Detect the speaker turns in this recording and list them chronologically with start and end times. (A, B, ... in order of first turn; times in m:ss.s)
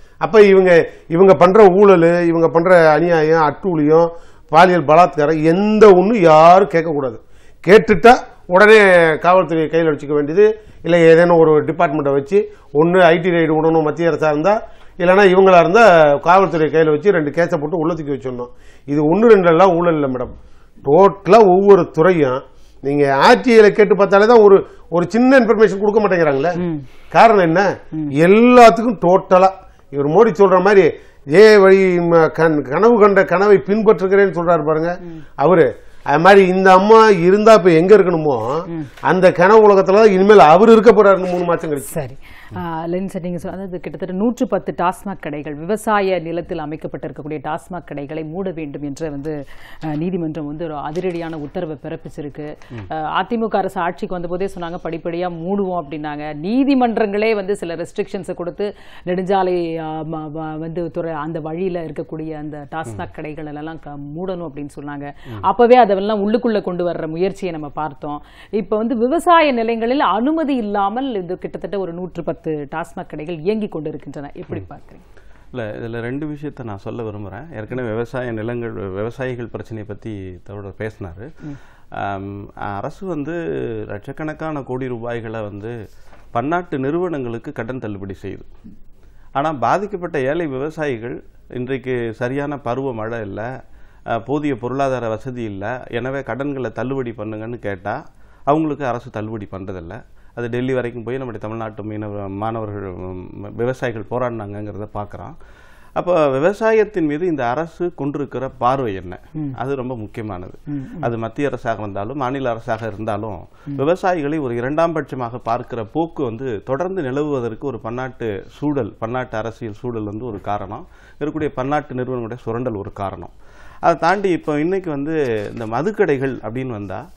0:00.2-0:26.6 A
0:26.6-0:26.8 B
0:27.1-0:41.9 A
0:41.9-1:15.0 B
1:15.5-1:21.3 C
1:21.9-1:25.7 C
1:26.3-1:28.5 C
1:29.4-1:33.5 C
1:34.1-1:45.4 C
1:46.0-2:03.3 C
1:50.7-1:51.1 B
2:03.8-2:07.0 C